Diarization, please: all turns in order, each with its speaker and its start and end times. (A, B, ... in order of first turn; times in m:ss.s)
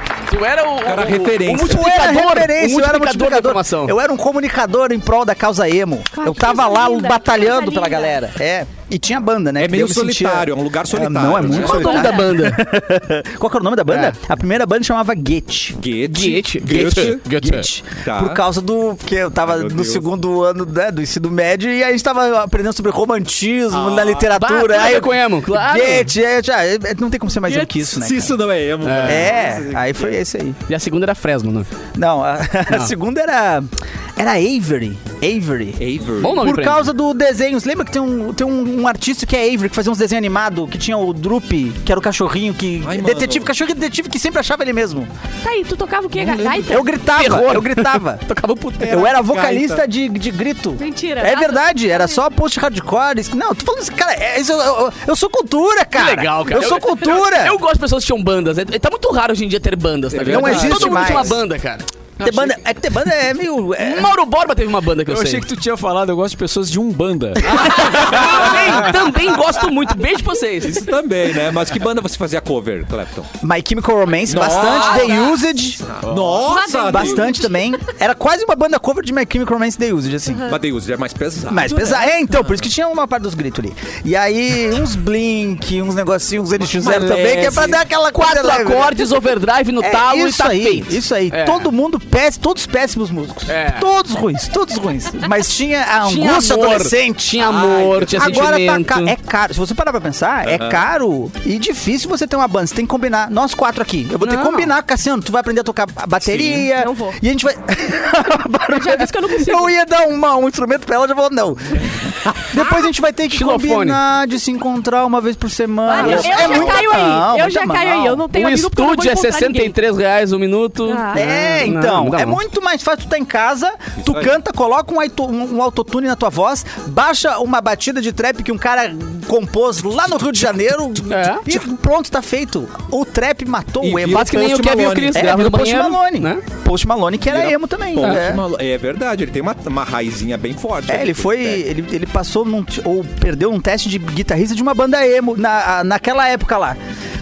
0:00.3-0:04.0 A
0:00.8-0:01.9 B
0:01.5-0:15.8 C
0:06.1-0:08.2 D
0:09.6-0:12.0 B
0:11.4-0:12.4 D
0:11.6-0:12.7 A
0:13.9-0:14.1 A
0:15.8-0:17.2 B
0:16.0-0:17.7 A
0:17.2-0:28.4 C
0:18.0-0:18.4 B
0:19.4-0:20.1 B
0:23.7-0:24.3 B
0:24.3-0:26.1 A
0:27.4-0:27.9 D
0:27.9-0:30.2 B
0:28.8-0:29.4 A
0:29.0-0:30.6 C
0:30.7-0:31.7 A
0:32.0-0:45.1 C
0:35.8-0:36.4 B
0:36.2-0:36.9 A
0:42.8-0:43.5 B
0:45.4-0:46.9 D
0:46.2-0:46.7 B
0:46.5-0:48.2 C
0:47.1-0:49.0 A
0:48.8-0:49.8 B
0:48.8-0:57.6 C
0:50.8-0:52.2 D
0:55.9-1:01.9 A
1:00.1-1:01.4 B
1:00.2-1:01.4 C
1:02.2-1:04.2 C
1:02.2-1:02.5 E
1:03.8-1:05.5 A
1:05.0-1:07.7 E
1:07.5-1:09.2 B
1:07.5-1:10.9 A
1:07.6-1:08.5 C
1:10.6-1:13.3 B
1:13.4-1:15.8 C
1:14.3-1:15.3 B
1:14.4-1:15.3 A
1:15.8-1:17.4 B
1:16.0-1:16.6 E
1:16.4-1:17.8 D
1:16.9-1:20.6 C
1:20.5-1:22.0 B
1:21.5-1:29.2 C
1:26.7-1:31.7 A
1:26.9-1:27.8 B
1:29.8-1:37.4 C
1:33.5-1:33.9 A
1:36.0-1:39.1 A
1:37.4-1:38.5 B
1:38.1-1:58.2 C
1:40.4-1:40.8 B
1:44.2-1:44.7 A
1:46.2-1:46.7 B
1:46.8-1:47.2 D
1:48.7-1:49.7 D
1:52.6-1:52.9 D
1:53.3-1:54.0 A
1:55.9-1:59.8 D
1:55.9-1:56.9 B
1:58.3-2:02.4 A
2:00.9-2:01.2 D
2:01.1-2:14.5 C
2:04.0-2:04.3 B
2:11.1-2:11.5 A
2:13.8-2:15.2 B
2:14.0-2:16.4 A
2:15.1-2:18.4 C
2:17.3-2:21.6 B
2:18.0-2:18.2 A
2:20.9-2:26.8 C